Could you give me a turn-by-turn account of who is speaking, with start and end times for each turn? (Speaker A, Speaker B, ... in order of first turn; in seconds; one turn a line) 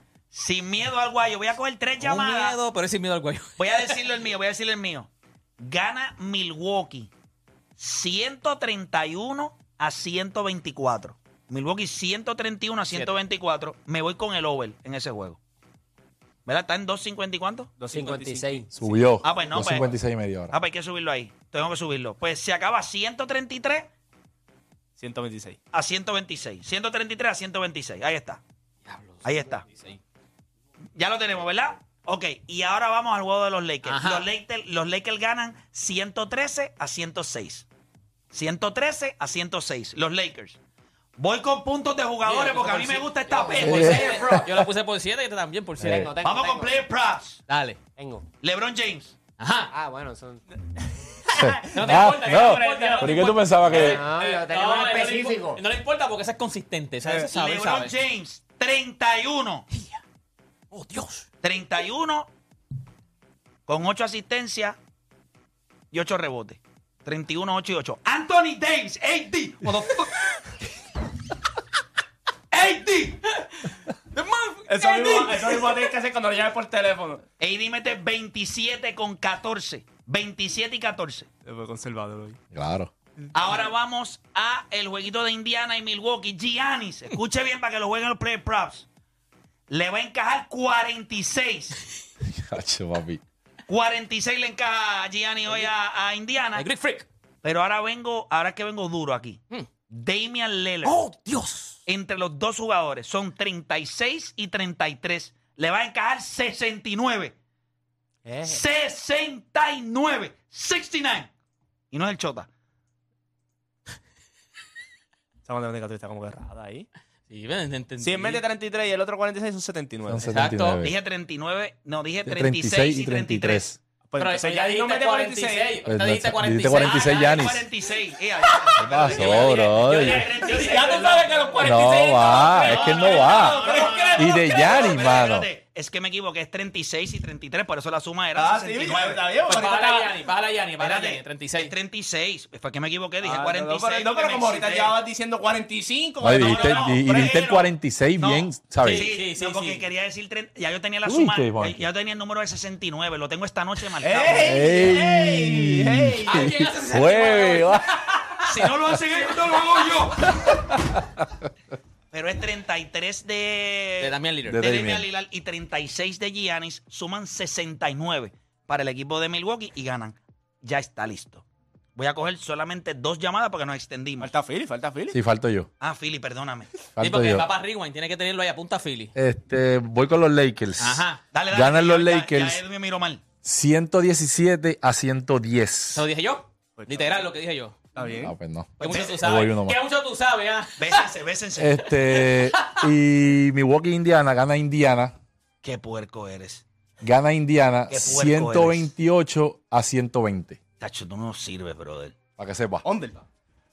Speaker A: 0.3-2.6
Speaker B: 2.0-4.1
Speaker A: 3.6-7.1
Speaker A: 7.8-15.4
Speaker B: 12.9-13.2
Speaker A: 16.4-17.7
Speaker C: 17.8-18.6
Speaker D: 17.9-18.7
Speaker E: 18.7-20.5
Speaker A: 19.2-20.0
Speaker A: 20.5-23.9
Speaker C: 25.0-25.6
Speaker A: 25.7-28.4
Speaker B: 28.8-30.0
Speaker A: 29.2-29.6
Speaker A: 30.9-37.7
Speaker B: 33.8-34.3
Speaker A: 38.3-40.6
Speaker A: 41.2-44.4
Speaker B: 42.2-46.1
Speaker E: 43.6-44.5
Speaker E: 45.8-46.1
Speaker D: 45.8-46.8
Speaker A: 46.2-47.4
Speaker B: 47.5-47.8
Speaker D: 48.0-48.3
Speaker A: 48.4-49.2
Speaker B: 49.4-49.7
Speaker D: 49.7-50.4
Speaker E: 51.3-54.0
Speaker B: 51.7-57.9
Speaker D: 52.4-53.1
Speaker D: 53.7-55.6
Speaker A: 57.3-59.6
Speaker B: 59.7-60.0
Speaker B: 60.7-61.2
Speaker A: 61.4-62.3
Speaker A: 63.7-64.8
Speaker A: 65.9-70.2
Speaker A: 72.5-73.2
Speaker B: 74.1-75.8
Speaker C: 74.7-77.2
Speaker A: 77.4-81.3
Speaker C: 81.4-82.4
Speaker E: 82.5-82.9
Speaker A: 83.3-88.9
Speaker A: 89.7-91.8
Speaker E: 92.4-93.2
Speaker A: 93.7-96.7
Speaker B: 96.5-97.1
Speaker A: 97.4-101.0
Speaker B: 100.8-101.8
Speaker A: 101.8-107.3
Speaker D: 108.2-108.6
Speaker A: 108.4-111.3
Speaker A: 111.9-112.5
Speaker C: 115.4-116.9
Speaker B: 117.3-118.4
Speaker C: 118.0-120.3
Speaker E: 120.1-120.9
Speaker B: 120.3-120.8
Speaker A: 120.8-123.7
Speaker E: 122.2-123.8
Speaker C: 124.0-125.8
Speaker B: 124.2-127.5
Speaker E: 125.8-127.7
Speaker A: 126.8-131.3
Speaker E: 128.8-130.3
Speaker B: 128.9-131.2
Speaker C: 129.9-134.6
Speaker E: 131.6-135.5
Speaker B: 132.2-135.1
Speaker A: 132.6-139.2
Speaker C: 138.3-140.2
Speaker B: 139.4-141.7
Speaker A: 140.8-144.9
Speaker C: 143.2-147.5
Speaker E: 146.2-149.1
Speaker A: 146.4-154.5
Speaker B: 148.8-149.9
Speaker E: 151.0-151.8
Speaker C: 154.0-156.5
Speaker E: 154.4-157.9
Speaker B: 156.2-159.7
Speaker A: 158.5-160.3
Speaker E: 160.4-161.2
Speaker A: 162.1-171.4
Speaker B: 164.0-164.6
Speaker E: 164.5-165.1
Speaker A: 171.9-174.3
Speaker C: 174.2-175.2
Speaker E: 175.1-175.7
Speaker A: 175.8-176.7
Speaker E: 176.9-177.5
Speaker B: 177.0-179.1
Speaker E: 179.1-182.6
Speaker B: 180.8-181.2
Speaker A: 181.3-183.2
Speaker E: 183.4-186.0
Speaker B: 185.9-187.9
Speaker C: 186.8-187.3
Speaker C: 187.9-188.3
Speaker E: 188.2-189.8
Speaker B: 188.8-191.1
Speaker A: 188.8-189.2
Speaker A: 190.8-191.9
Speaker E: 191.6-195.1
Speaker B: 192.1-192.8
Speaker A: 195.6-196.6
Speaker E: 197.0-200.6
Speaker A: 197.9-198.9
Speaker A: 200.8-202.2
Speaker E: 202.4-202.8
Speaker C: 202.8-203.2